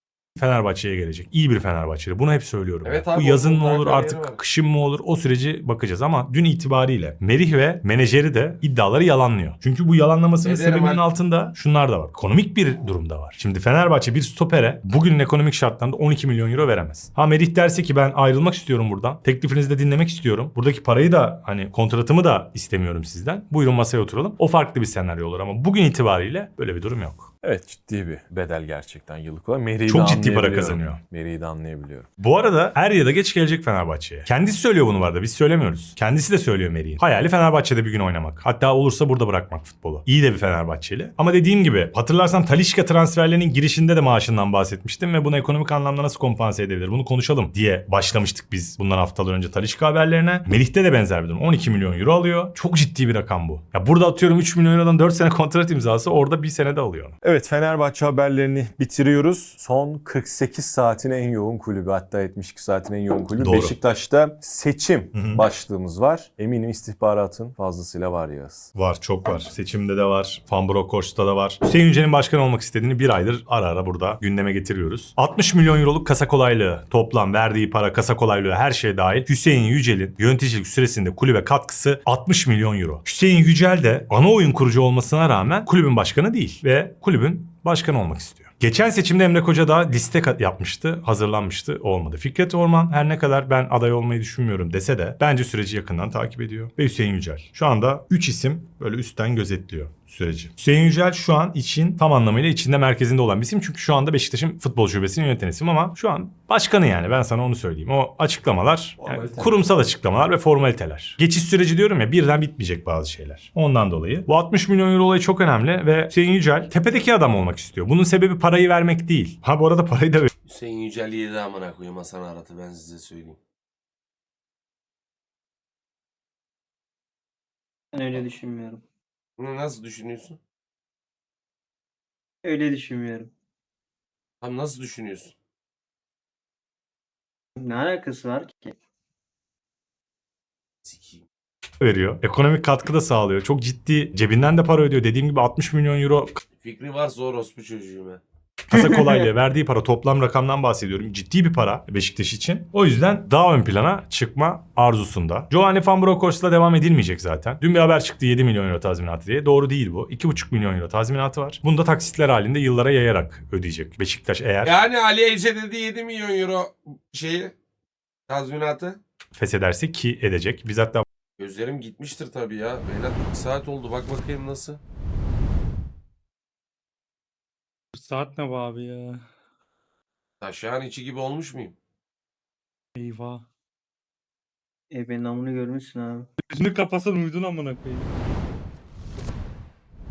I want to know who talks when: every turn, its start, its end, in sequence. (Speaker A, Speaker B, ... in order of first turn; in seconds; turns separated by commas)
Speaker A: 0.4-27.3, Speaker B: 2.9-4.4, Speaker B: 10.4-11.0, Speaker C: 27.4-32.1, Speaker A: 29.9-31.0, Speaker A: 32.2-57.1, Speaker C: 57.2-68.7, Speaker A: 63.4-63.8, Speaker A: 65.1-65.5, Speaker A: 68.8-120.3, Speaker C: 109.0-109.5, Speaker B: 120.5-123.4, Speaker D: 127.9-128.8, Speaker B: 129.4-130.4, Speaker D: 132.4-133.3, Speaker B: 134.4-135.3, Speaker D: 137.6-138.8, Speaker B: 140.8-141.2, Speaker A: 141.8-146.4, Speaker B: 146.6-148.2, Speaker A: 148.7-164.8, Speaker D: 148.7-149.2, Speaker B: 164.6-167.5, Speaker B: 168.3-169.0, Speaker A: 169.3-171.0, Speaker B: 171.4-174.8, Speaker E: 177.9-179.2, Speaker B: 180.4-181.8, Speaker E: 183.0-183.4, Speaker D: 184.9-186.3, Speaker E: 186.5-188.1